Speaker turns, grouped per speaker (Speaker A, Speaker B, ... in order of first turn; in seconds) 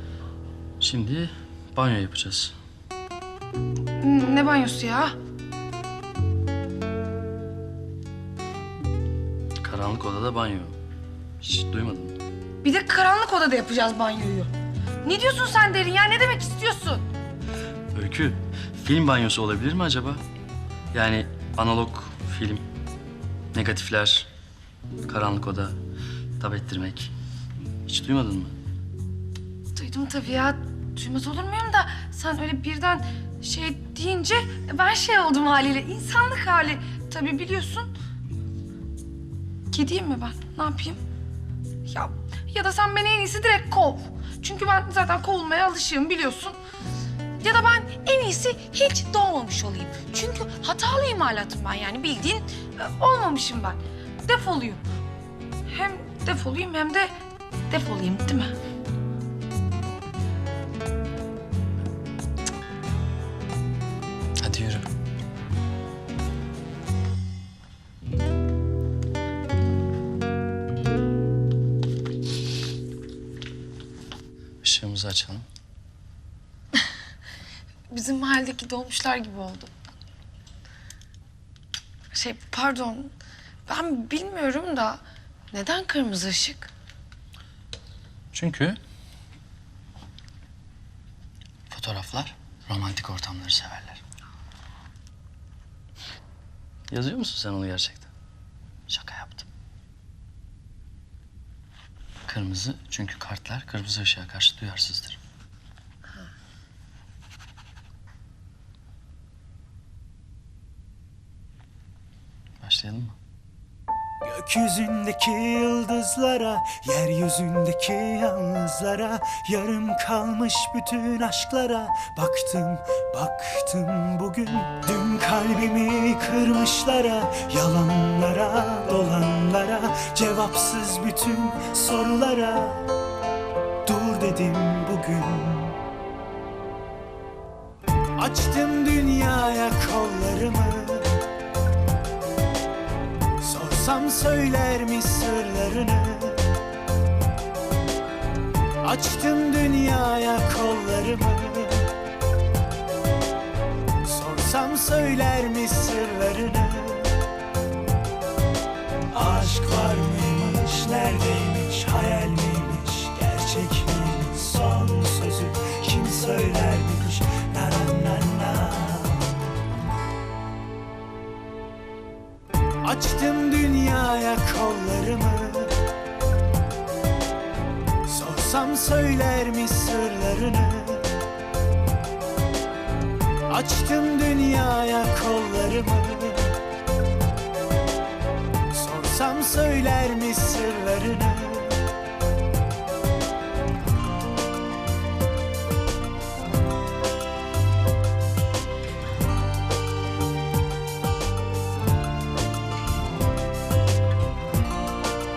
Speaker A: 0.8-2.5, 9.6-10.8, 11.4-12.2, 17.9-20.2, 20.9-22.6, 23.5-24.3, 25.1-25.7, 26.4-27.1, 27.9-28.6, 64.4-64.9, 74.6-75.5, 88.3-88.8, 91.7-94.0, 96.9-98.1, 98.9-99.5, 102.2-105.2, 112.6-113.2
Speaker B: 4.0-5.2, 12.6-14.5, 15.0-17.0, 29.7-37.9, 39.7-41.0, 41.9-46.6, 47.4-54.8, 55.7-57.1, 57.7-58.5, 77.9-79.7, 82.1-83.1, 83.7-85.0, 85.5-86.7
Speaker C: 114.2-132.8, 133.8-135.8, 138.2-141.2, 143.4-146.5, 148.8-151.9, 154.0-157.2, 159.1-169.5, 172.8-175.8, 178.1-181.2, 183.5-186.6, 188.7-191.9